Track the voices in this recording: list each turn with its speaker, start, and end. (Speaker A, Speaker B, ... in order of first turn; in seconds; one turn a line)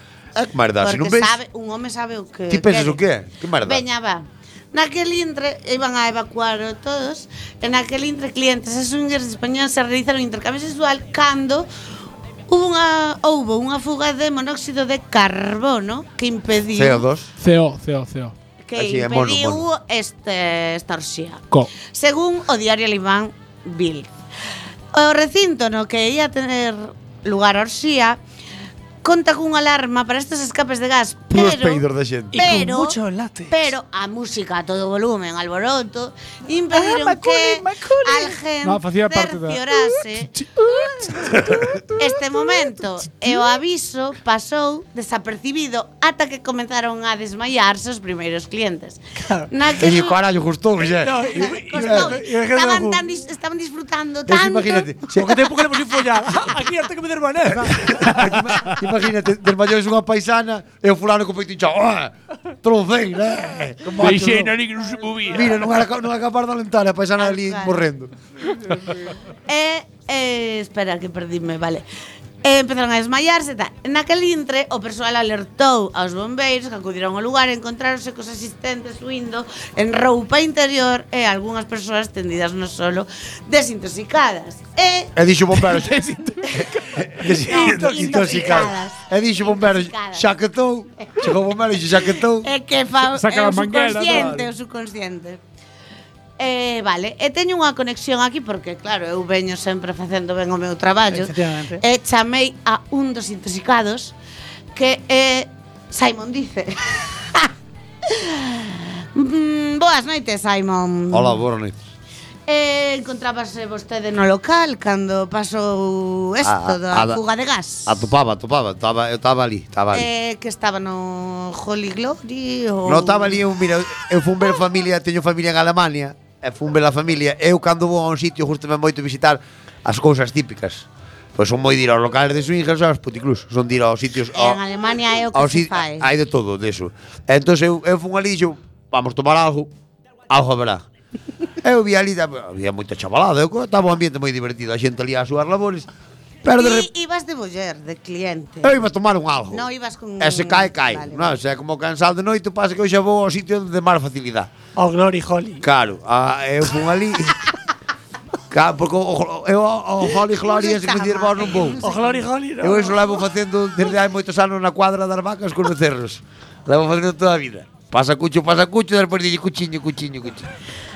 Speaker A: 0.4-1.4
Speaker B: 0.8-3.0
Speaker A: 2.5-3.8
Speaker B: 3.6-11.7
Speaker B: 12.5-17.0
Speaker A: 16.7-17.3
Speaker C: 17.4-18.3
Speaker B: 18.6-24.1
Speaker A: 18.8-19.7
Speaker B: 24.9-28.2
Speaker B: 29.0-31.8
Speaker A: 31.3-32.4
Speaker D: 32.3-33.7
Speaker B: 32.4-33.0
Speaker B: 33.5-40.3
Speaker D: 36.7-38.4
Speaker C: 38.6-39.6
Speaker D: 40.6-42.5
Speaker B: 42.0-50.2
Speaker D: 49.2-49.5
Speaker A: 49.8-52.1
Speaker D: 50.8-53.0
Speaker B: 51.3-54.9
Speaker A: 54.3-55.5
Speaker D: 55.1-58.4
Speaker A: 57.5-64.5
Speaker C: 58.3-58.8
Speaker D: 63.9-64.5
Speaker C: 64.0-65.5
Speaker A: 65.3-68.1
Speaker B: 67.2-67.8
Speaker B: 69.5-71.8
Speaker B: 72.4-85.1
Speaker A: 85.2-86.0
Speaker C: 85.7-86.7
Speaker A: 86.6-92.5
Speaker D: 87.2-88.6
Speaker B: 87.5-90.2
Speaker B: 92.4-95.4
Speaker C: 93.0-94.4
Speaker A: 94.1-94.5
Speaker B: 96.4-104.2
Speaker D: 101.1-101.8
Speaker B: 104.7-107.5
Speaker B: 108.1-111.4
Speaker A: 111.1-111.8
Speaker B: 112.5-118.0
Speaker A: 116.4-117.2
Speaker A: 117.9-120.1
Speaker B: 119.9-123.4
Speaker A: 122.8-134.6
Speaker B: 134.3-136.1
Speaker A: 135.3-139.7
Speaker A: 140.3-140.8
Speaker A: 141.6-145.9
Speaker A: 146.4-146.9
Speaker B: 146.5-148.8
Speaker A: 148.6-149.7
Speaker B: 149.5-151.3
Speaker A: 150.2-154.5
Speaker D: 154.8-155.7
Speaker A: 155.6-157.4
Speaker A: 158.5-161.8
Speaker B: 160.3-162.2
Speaker D: 161.8-163.2
Speaker A: 162.6-170.5